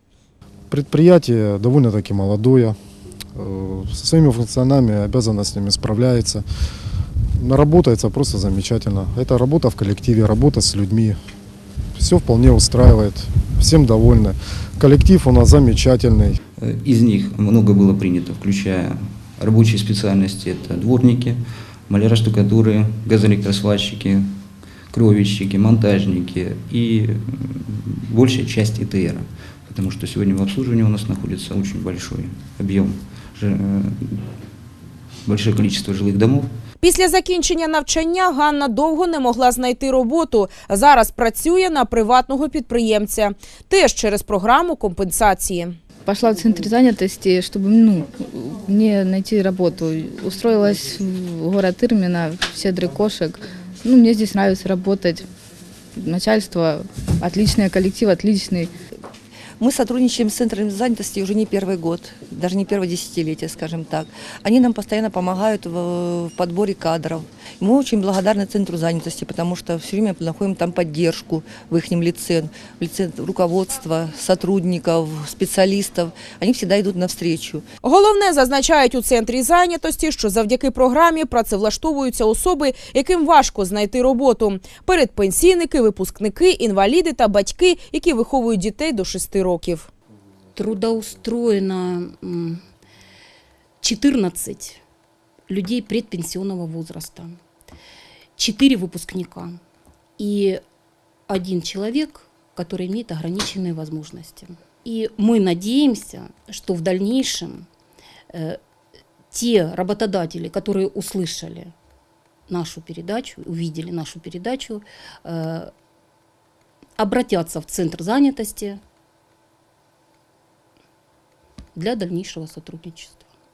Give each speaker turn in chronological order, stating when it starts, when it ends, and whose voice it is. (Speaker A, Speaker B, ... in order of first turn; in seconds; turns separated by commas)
Speaker A: 0.7-2.8, Speaker A: 3.4-6.4, Speaker A: 7.4-11.2, Speaker A: 11.9-16.4, Speaker B: 16.6-24.3, Speaker B: 24.9-33.9, Speaker C: 27.7-27.9, Speaker B: 35.2-36.5, Speaker D: 36.8-45.8, Speaker C: 46.1-55.2, Speaker C: 56.0-58.7, Speaker E: 59.6-77.7, Speaker D: 77.8-89.9, Speaker F: 90.5-92.6, Speaker F: 93.8-94.8, Speaker F: 95.5-97.4, Speaker F: 98.4-99.6, Speaker F: 100.2-100.6, Speaker F: 101.3-107.7, Speaker F: 108.3-108.6, Speaker F: 109.3-111.7, Speaker F: 112.5-115.7, Speaker F: 117.0-118.8, Speaker F: 121.7-123.2